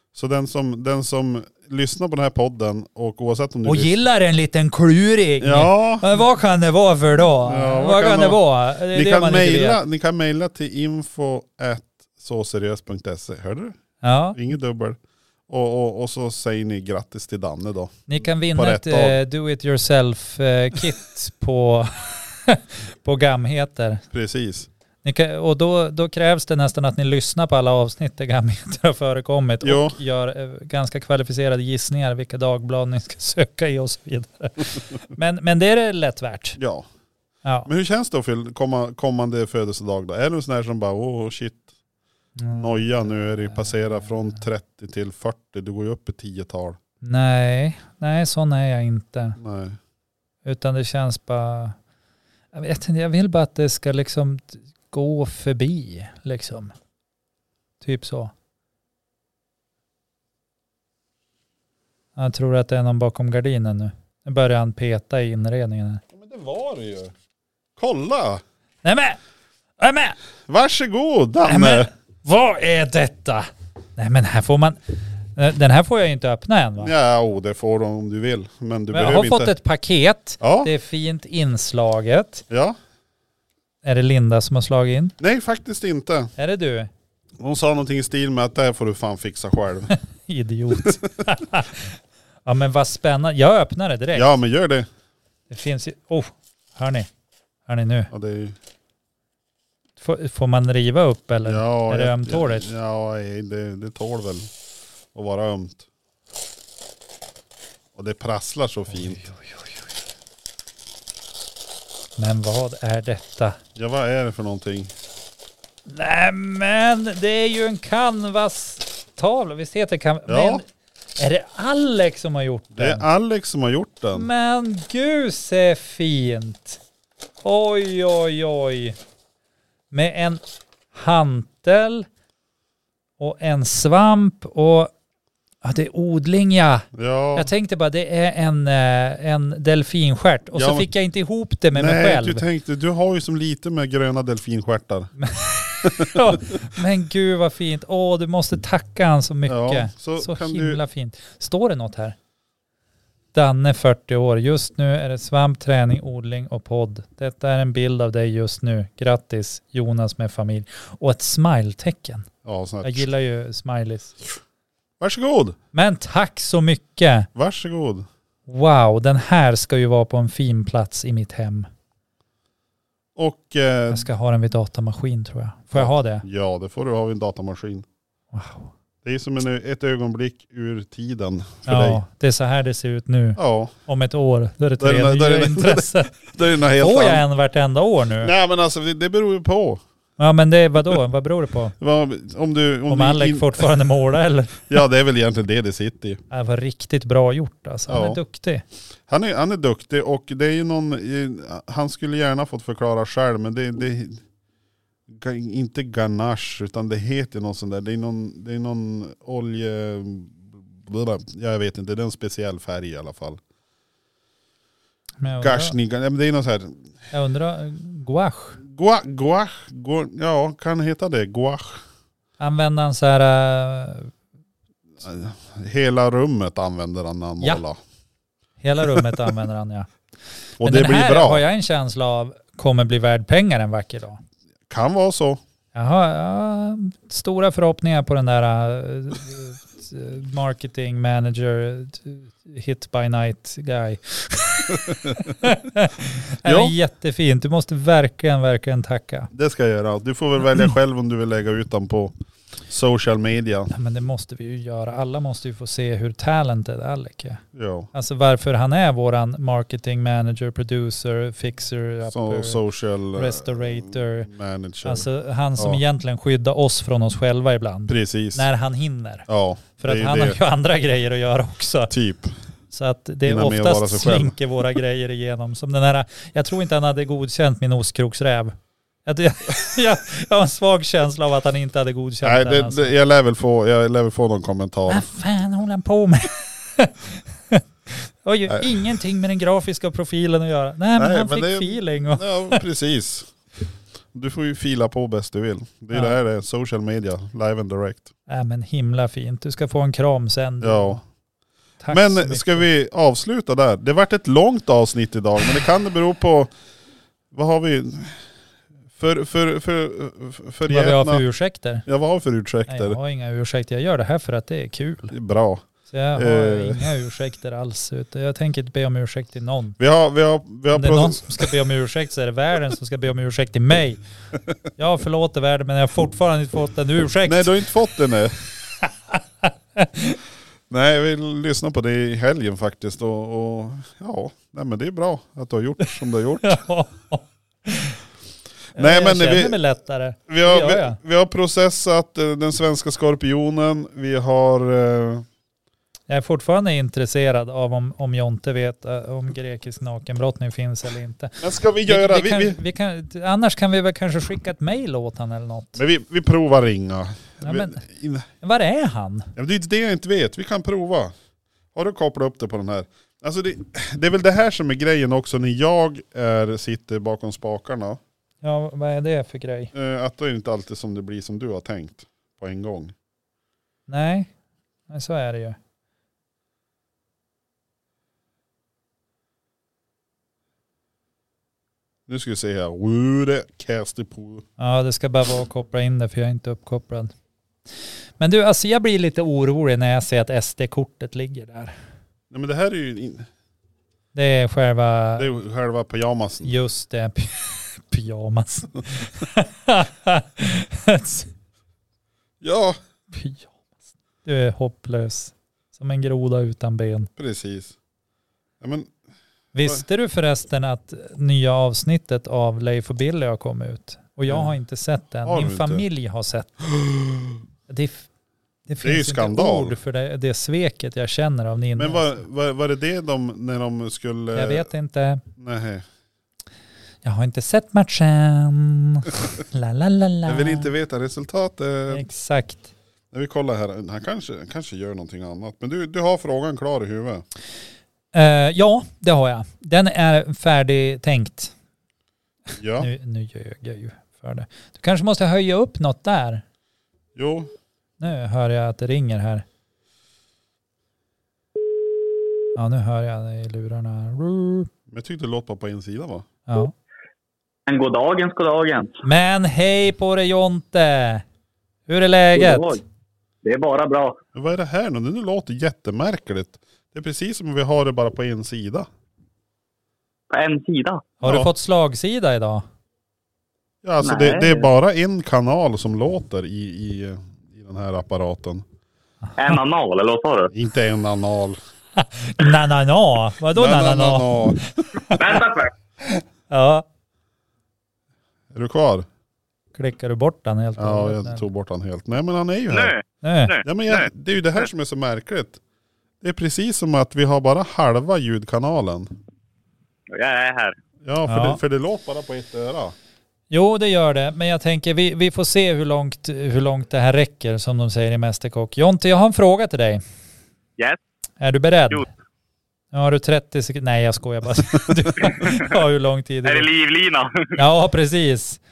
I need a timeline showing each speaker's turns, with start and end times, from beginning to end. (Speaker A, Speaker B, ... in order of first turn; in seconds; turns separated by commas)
Speaker A: 0.1-3.9, Speaker B: 3.6-9.8, Speaker A: 5.4-6.1, Speaker A: 7.4-13.7, Speaker B: 14.0-14.4, Speaker A: 14.3-19.2, Speaker B: 18.1-24.0, Speaker A: 24.1-24.7, Speaker B: 25.0-36.6, Speaker A: 29.6-30.0, Speaker A: 36.6-36.9, Speaker A: 37.7-41.7, Speaker B: 42.4-44.4, Speaker A: 42.6-46.8, Speaker B: 47.0-49.4, Speaker A: 49.4-49.8, Speaker B: 50.5-51.8, Speaker B: 52.5-56.7, Speaker B: 57.8-58.3, Speaker B: 62.2-66.0, Speaker A: 66.1-67.1, Speaker A: 67.8-68.4, Speaker B: 68.8-69.2, Speaker B: 69.8-70.2, Speaker A: 70.5-71.9, Speaker B: 71.5-76.9, Speaker A: 76.8-79.5, Speaker B: 78.9-82.5, Speaker A: 80.4-80.7, Speaker A: 82.5-82.8, Speaker B: 83.8-85.2, Speaker A: 85.2-86.3, Speaker B: 86.4-86.9, Speaker A: 87.4-89.9, Speaker B: 89.9-94.2, Speaker A: 94.2-94.9, Speaker B: 95.5-97.1, Speaker B: 97.7-98.1, Speaker A: 98.1-98.6, Speaker B: 100.0-102.7, Speaker A: 101.5-104.5, Speaker A: 105.1-105.8, Speaker A: 108.0-109.3, Speaker B: 108.9-109.8, Speaker B: 112.2-113.6, Speaker A: 113.8-114.9, Speaker B: 115.9-120.7, Speaker A: 120.3-120.6, Speaker B: 121.2-123.0, Speaker A: 122.7-124.3, Speaker B: 124.1-126.8, Speaker B: 127.4-129.0, Speaker B: 129.9-130.4, Speaker B: 130.9-132.1, Speaker B: 133.2-134.9, Speaker B: 135.6-142.4, Speaker A: 136.9-137.5, Speaker A: 140.5-140.9, Speaker A: 141.7-145.1, Speaker B: 145.2-152.2, Speaker A: 145.8-146.4, Speaker A: 149.5-150.8, Speaker B: 153.3-162.3, Speaker A: 162.4-163.1, Speaker B: 162.8-164.2, Speaker A: 165.0-165.6, Speaker B: 165.7-167.3, Speaker A: 167.3-168.1, Speaker B: 168.5-171.7, Speaker A: 173.2-174.1, Speaker B: 173.9-176.2, Speaker A: 175.7-177.9, Speaker B: 178.3-178.7, Speaker A: 179.0-182.0, Speaker B: 181.7-186.2, Speaker A: 183.4-183.7, Speaker A: 184.8-187.2, Speaker B: 186.8-188.3, Speaker A: 188.2-189.8, Speaker B: 190.2-191.8, Speaker A: 191.8-193.7, Speaker B: 192.9-194.8, Speaker A: 194.7-196.2, Speaker B: 196.3-198.6, Speaker A: 197.9-198.2, Speaker A: 199.1-204.2, Speaker A: 205.1-213.4, Speaker B: 215.2-215.8, Speaker A: 215.4-216.8, Speaker B: 217.1-218.6, Speaker A: 218.6-221.8, Speaker B: 222.4-224.1, Speaker A: 225.0-227.8, Speaker B: 228.6-229.9, Speaker A: 228.9-229.2, Speaker A: 230.6-231.4, Speaker B: 230.6-234.2, Speaker A: 234.7-235.4, Speaker B: 235.7-249.3, Speaker A: 244.8-245.3, Speaker A: 246.4-246.8, Speaker A: 249.3-252.1, Speaker A: 252.7-253.7, Speaker B: 253.7-257.4, Speaker A: 257.6-257.9, Speaker B: 257.9-262.6, Speaker A: 262.1-265.8, Speaker B: 263.1-264.3, Speaker B: 264.9-269.2, Speaker A: 267.9-268.5, Speaker A: 269.3-270.4, Speaker B: 269.8-271.9, Speaker A: 271.9-272.3, Speaker B: 272.7-282.9, Speaker A: 273.3-274.4, Speaker A: 282.2-285.1, Speaker B: 284.9-292.6, Speaker A: 288.5-288.9, Speaker A: 291.0-293.3, Speaker A: 294.1-298.1, Speaker B: 298.3-301.0, Speaker A: 300.6-301.0, Speaker B: 301.8-302.6, Speaker A: 301.9-306.5, Speaker A: 307.3-308.3, Speaker A: 308.9-311.2, Speaker B: 310.7-311.9, Speaker A: 311.9-313.0, Speaker B: 312.7-315.1, Speaker A: 315.1-315.6, Speaker B: 315.9-319.8, Speaker A: 316.2-316.9, Speaker A: 319.8-321.5, Speaker B: 320.7-324.0, Speaker B: 324.8-327.6, Speaker A: 327.2-328.3, Speaker B: 329.1-330.2, Speaker A: 330.7-336.6, Speaker B: 336.4-338.0, Speaker A: 338.8-339.6, Speaker B: 338.8-341.0, Speaker A: 340.3-345.3, Speaker B: 346.1-355.8, Speaker A: 351.4-352.6, Speaker A: 355.8-358.3, Speaker B: 357.4-357.8, Speaker B: 358.4-359.3, Speaker A: 359.4-361.1, Speaker A: 361.8-368.0, Speaker B: 368.4-369.7, Speaker A: 369.7-372.9, Speaker B: 373.9-374.3, Speaker B: 374.9-375.6, Speaker A: 382.1-384.5, Speaker B: 384.6-387.1, Speaker B: 388.2-391.7, Speaker A: 392.3-393.3, Speaker B: 394.1-395.3, Speaker A: 395.2-396.6, Speaker B: 396.4-401.3, Speaker A: 402.4-402.8, Speaker B: 403.1-403.6, Speaker B: 404.2-407.1, Speaker A: 407.2-407.8, Speaker A: 408.6-408.9, Speaker B: 409.5-416.6, Speaker A: 414.3-414.5, Speaker A: 415.2-415.9, Speaker A: 416.7-417.4, Speaker B: 417.7-418.1, Speaker B: 418.7-422.2, Speaker A: 418.8-419.8, Speaker A: 421.8-424.7, Speaker B: 424.3-425.2, Speaker A: 425.4-425.9, Speaker B: 427.0-430.7, Speaker A: 430.3-432.0, Speaker B: 431.9-432.7, Speaker A: 433.1-437.2, Speaker B: 438.1-441.5, Speaker A: 442.6-442.9, Speaker B: 442.8-446.4, Speaker A: 447.2-447.5, Speaker B: 448.0-449.4, Speaker B: 452.6-454.7, Speaker A: 454.9-456.3, Speaker B: 456.5-456.7, Speaker C: 457.7-459.0, Speaker B: 459.0-461.2, Speaker B: 461.9-462.8, Speaker C: 462.4-462.8, Speaker C: 463.4-464.2, Speaker A: 464.4-468.9, Speaker C: 470.3-471.1, Speaker B: 471.2-472.6, Speaker A: 471.2-471.5, Speaker A: 473.8-478.6, Speaker C: 474.0-474.7, Speaker C: 479.4-480.5, Speaker A: 480.5-481.6, Speaker B: 482.0-485.4, Speaker A: 483.5-484.7, Speaker C: 485.1-485.7, Speaker B: 486.5-486.9, Speaker A: 488.5-489.1, Speaker B: 489.8-491.4, Speaker A: 490.8-492.9, Speaker C: 492.7-494.1, Speaker B: 493.2-493.5, Speaker A: 493.6-495.6, Speaker A: 496.2-499.1, Speaker C: 500.1-500.8, Speaker A: 501.0-502.9, Speaker B: 501.3-501.6, Speaker B: 503.5-510.0, Speaker B: 511.4-512.1, Speaker B: 512.9-516.7, Speaker C: 516.5-517.6, Speaker B: 517.6-518.6